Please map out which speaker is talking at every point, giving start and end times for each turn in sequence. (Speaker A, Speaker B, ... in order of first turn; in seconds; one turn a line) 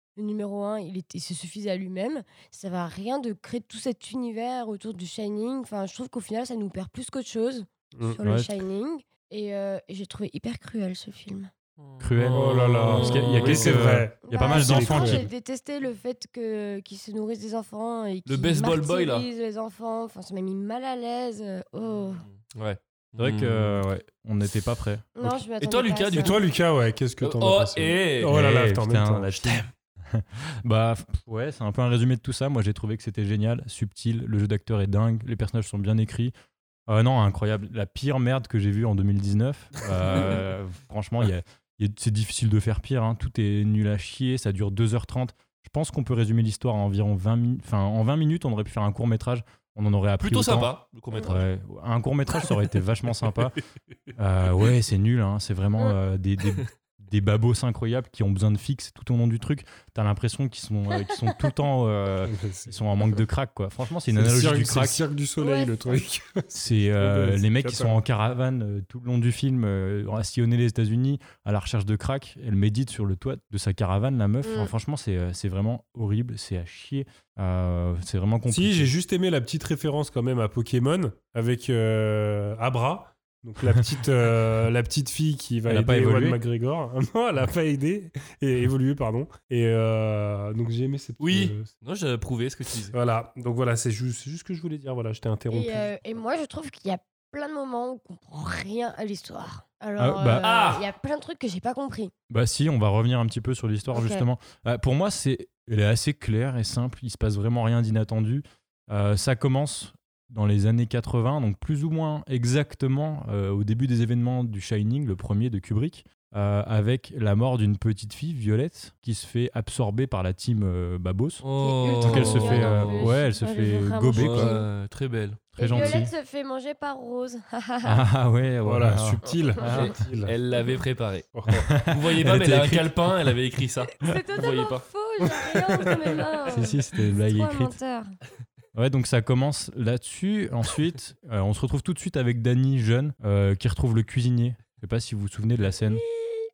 Speaker A: 0.2-11.5
Speaker B: 8.2-8.5
Speaker C: 11.8-13.9
Speaker B: 12.0-15.3
Speaker D: 12.4-15.2
Speaker A: 14.2-22.2
Speaker C: 18.3-19.3
Speaker C: 22.3-23.8
Speaker B: 23.2-25.4
Speaker A: 25.2-26.4
Speaker C: 25.6-26.4
Speaker D: 26.1-29.5
Speaker C: 27.2-28.5
Speaker B: 28.2-36.3
Speaker B: 36.9-53.6
Speaker C: 50.2-51.5
Speaker B: 54.2-65.0
Speaker D: 62.3-62.7
Speaker D: 64.1-68.0
Speaker A: 65.4-66.0
Speaker B: 66.5-78.9
Speaker A: 74.4-74.7
Speaker D: 78.5-91.7
Speaker B: 85.7-86.4
Speaker C: 91.2-93.0
Speaker D: 92.9-95.9
Speaker A: 95.5-102.1
Speaker B: 100.0-100.5
Speaker C: 100.4-100.8
Speaker B: 102.3-121.4
Speaker A: 103.9-104.2
Speaker C: 121.4-123.2
Speaker A: 121.6-124.7
Speaker B: 122.0-124.6
Speaker C: 124.2-125.9
Speaker A: 125.6-128.0
Speaker B: 125.6-126.1
Speaker B: 127.8-130.0
Speaker D: 128.6-130.3
Speaker C: 129.6-134.8
Speaker D: 131.3-131.7
Speaker B: 131.5-133.3
Speaker A: 134.0-138.1
Speaker B: 136.5-137.8
Speaker B: 138.8-146.0